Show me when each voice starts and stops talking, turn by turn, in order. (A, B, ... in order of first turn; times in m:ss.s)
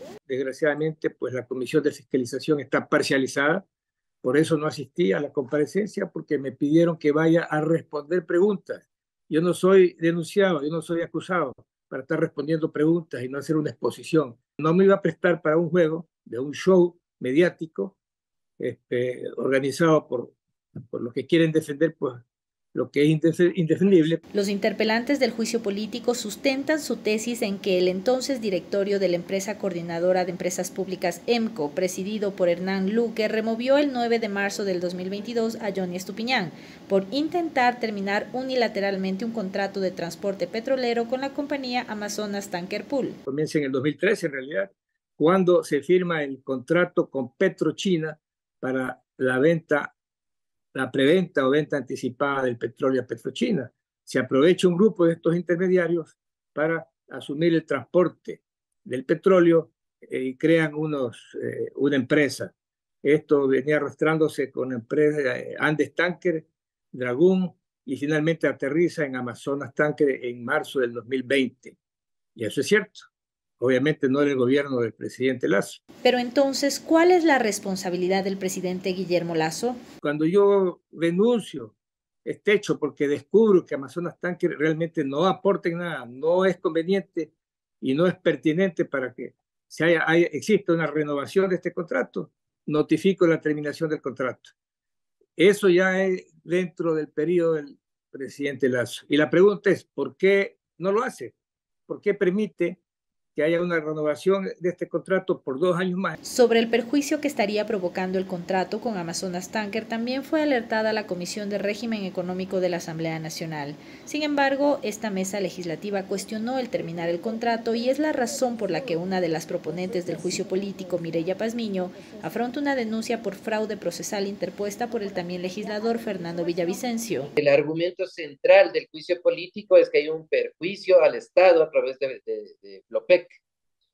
0:00.3-0:03.6 A
0:04.2-0:18.0 A
0:18.6-0:20.4 A
0:20.9-0:22.2 A
0:22.7-0:24.2 A
0:24.3-0:43.2 B
0:43.2-0:49.9 A
0:50.7-1:11.8 A
1:12.4-1:13.1 A
1:13.6-1:15.8 A
1:16.0-1:19.8 B
1:20.0-1:21.7 A
1:22.2-1:34.5 A
1:35.4-1:41.3 A
1:41.9-1:42.8 A
1:43.3-1:46.2 A
1:46.2-2:07.3 B
2:07.4-2:13.4 C